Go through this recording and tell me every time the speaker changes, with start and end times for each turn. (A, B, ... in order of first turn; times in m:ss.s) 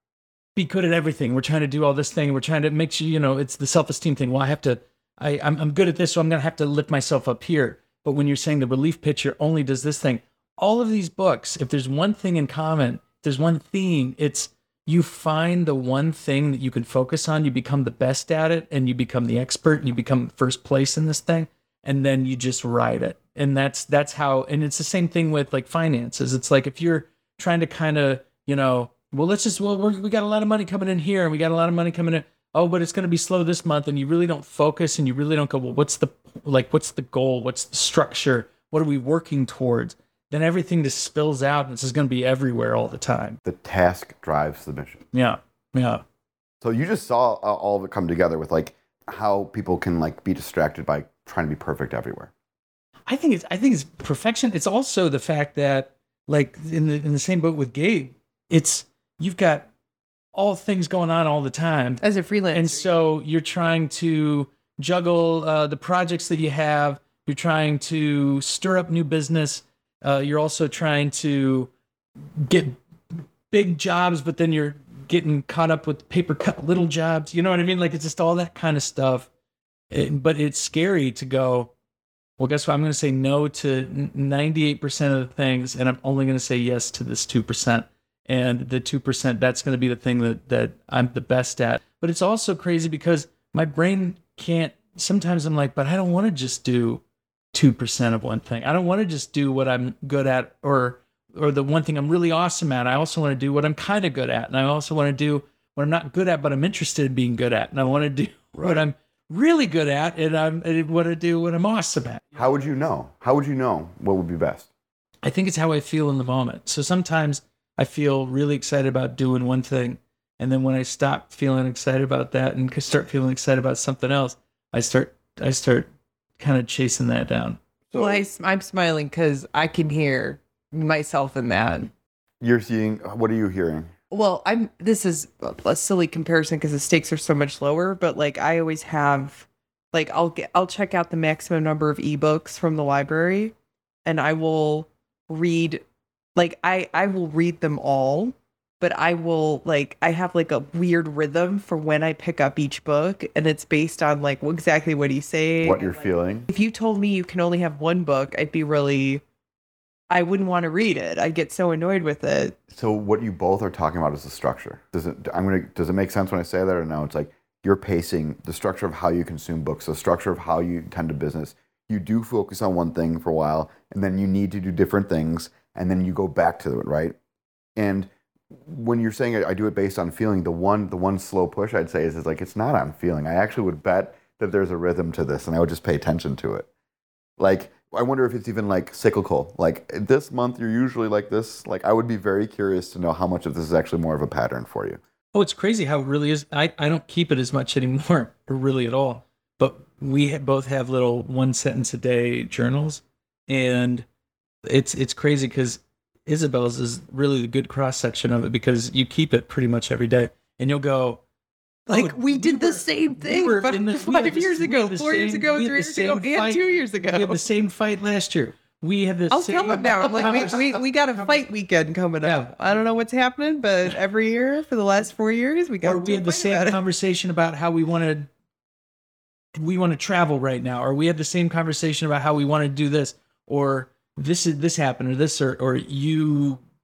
0:00.5-0:43.4 A
0:43.4-0:45.0 B
0:45.1-0:46.0 A
0:46.6-0:52.3 B
0:53.1-0:59.7 A
1:00.3-1:11.7 A
1:02.0-1:02.8 C
1:12.4-1:19.3 A
1:19.9-1:21.7 A
1:22.4-1:52.4 A
1:48.6-1:48.8 B
1:52.4-1:54.7 B
1:55.2-2:05.9 A
2:06.4-2:07.6 A
2:07.9-2:11.9 C
2:12.4-2:13.9 B
2:14.1-2:23.5 C
2:24.0-2:25.8 C
2:26.3-2:39.2 C
2:35.6-2:36.5 B
2:40.1-2:42.6 C
2:42.7-2:57.2 B
2:57.8-3:06.7 B
3:07.4-3:15.0 B
3:15.3-3:24.0 A
3:24.6-3:31.2 A
3:31.9-3:40.6 A
3:31.9-3:37.4 C
3:39.3-3:46.8 C
3:42.2-3:42.6 A
3:45.8-3:48.3 A
3:49.5-3:56.6 A